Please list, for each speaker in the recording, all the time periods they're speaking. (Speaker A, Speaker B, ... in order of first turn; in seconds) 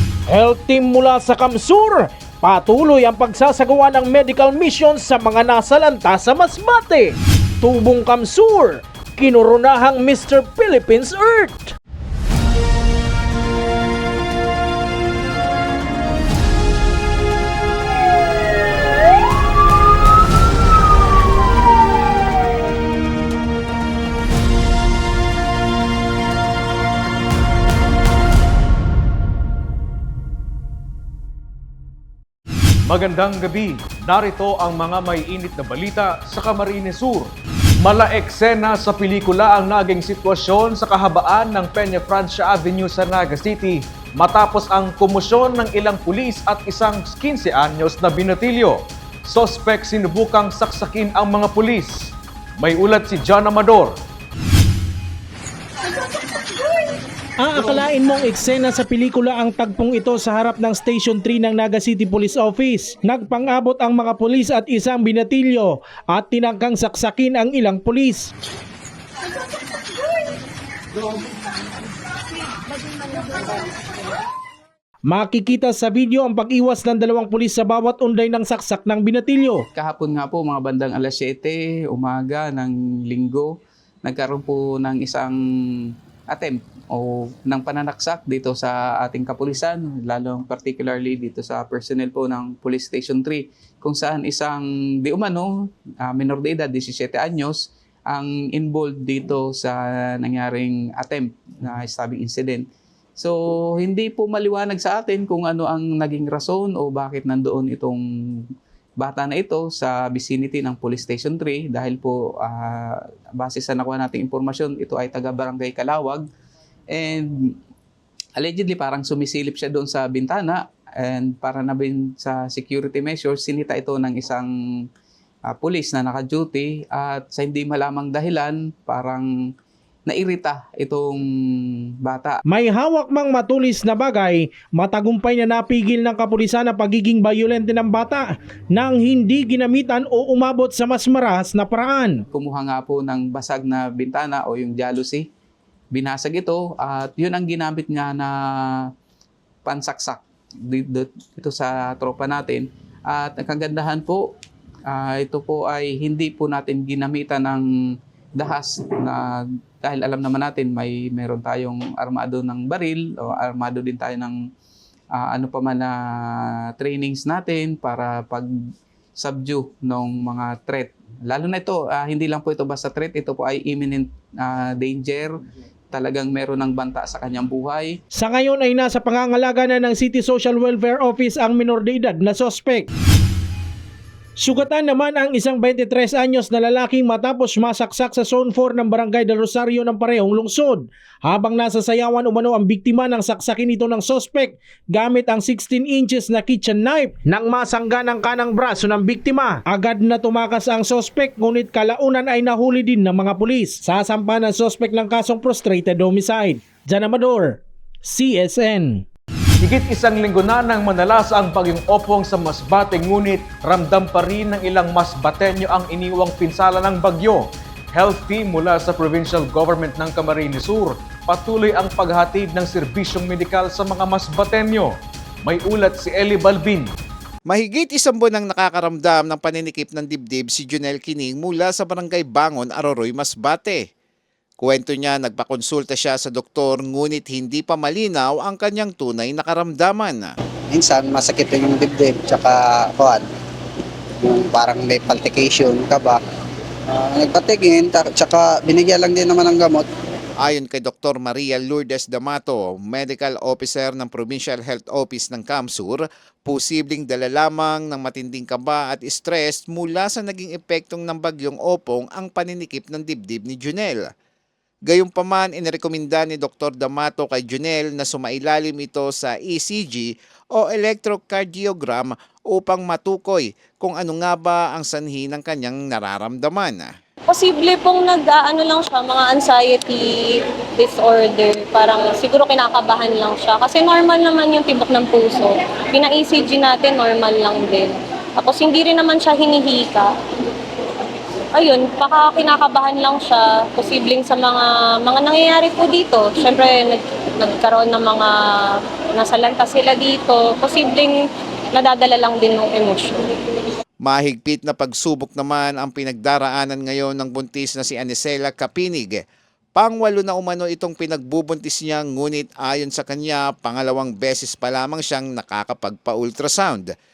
Speaker A: 0.3-11.8, 57.4-68.3, 75.1-79.7, 132.5-142.2, 178.2-182.9, 184.4-209.1
Speaker B: 32.9-37.3, 37.8-54.0, 209.6-226.9
Speaker C: 79.8-95.5, 96.0-102.7, 103.2-108.5, 109.0-116.3, 116.9-117.5, 118.4-124.8, 125.5-129.3, 130.1-131.2, 132.0-132.4, 142.3-145.3, 145.9-148.9, 149.7-154.3, 154.9-157.7, 158.4-164.4, 165.2-168.5, 169.2-175.4, 175.9-178.0
Speaker D: 227.5-233.8, 234.6-240.3, 250.4-264.1, 264.9-276.9, 304.1-309.2, 309.8-316.9
Speaker E: 240.7-243.2, 244.2-246.2, 246.9-249.8
Speaker F: 277.3-290.1, 291.6-301.2, 301.7-303.2